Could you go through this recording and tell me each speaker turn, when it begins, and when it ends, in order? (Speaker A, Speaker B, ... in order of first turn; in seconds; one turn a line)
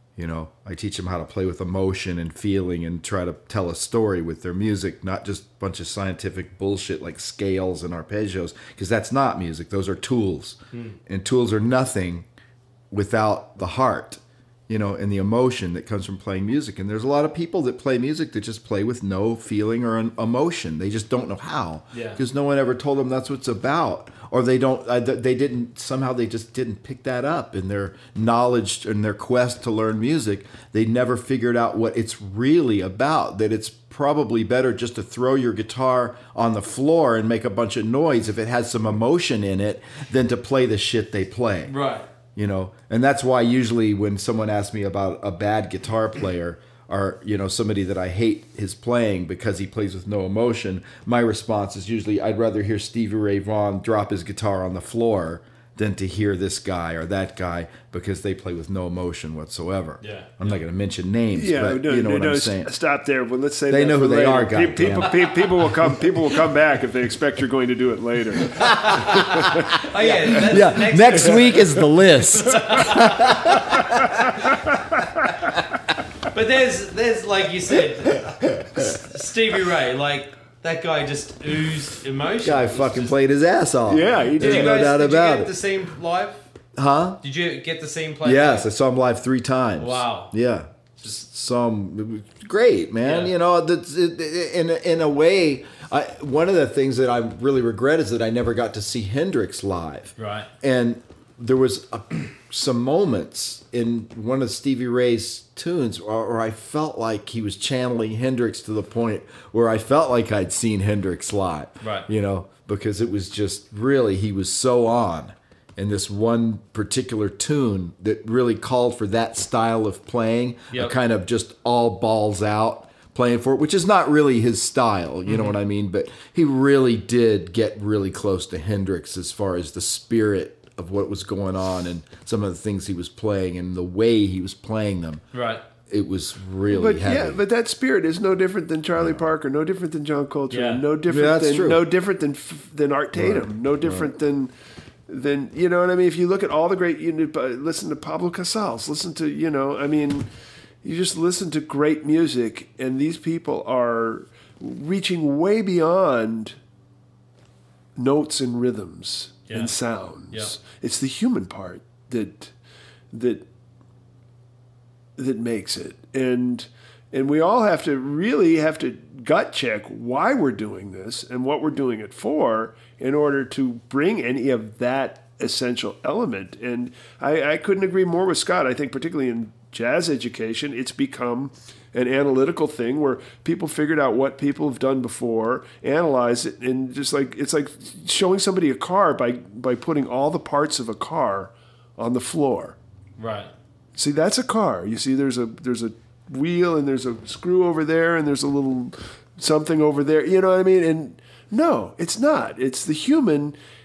Speaker A: 0.2-12.3
Speaker A: 12.9-41.7
Speaker B: 21.9-22.2
Speaker B: 41.7-42.1
Speaker A: 42.4-62.7
Speaker B: 60.0-60.6
Speaker C: 61.3-70.5
Speaker A: 63.7-65.3
Speaker A: 65.8-66.1
Speaker A: 68.5-69.7
Speaker B: 68.7-74.6
Speaker A: 70.3-74.3
Speaker C: 73.6-75.2
Speaker B: 76.3-83.2
Speaker A: 78.1-78.9
Speaker A: 82.4-85.5
Speaker C: 83.9-84.9
Speaker B: 84.4-86.5
Speaker A: 86.8-87.2
Speaker B: 87.2-88.7
Speaker A: 88.2-135.2
Speaker B: 89.8-90.3
Speaker B: 93.0-93.3
Speaker B: 100.2-100.5
Speaker B: 111.8-112.1
Speaker B: 125.3-125.6
Speaker B: 135.3-135.6
Speaker A: 135.9-137.4
Speaker C: 136.7-144.5
Speaker A: 139.0-139.3
Speaker B: 140.5-140.8
Speaker A: 141.1-141.8
Speaker A: 143.2-144.1
Speaker C: 145.1-150.3
Speaker C: 150.8-156.6
Speaker C: 158.0-162.5
Speaker B: 159.5-159.7
Speaker C: 163.1-163.4
Speaker C: 165.2-192.8
Speaker B: 193.2-193.5
Speaker C: 194.0-203.6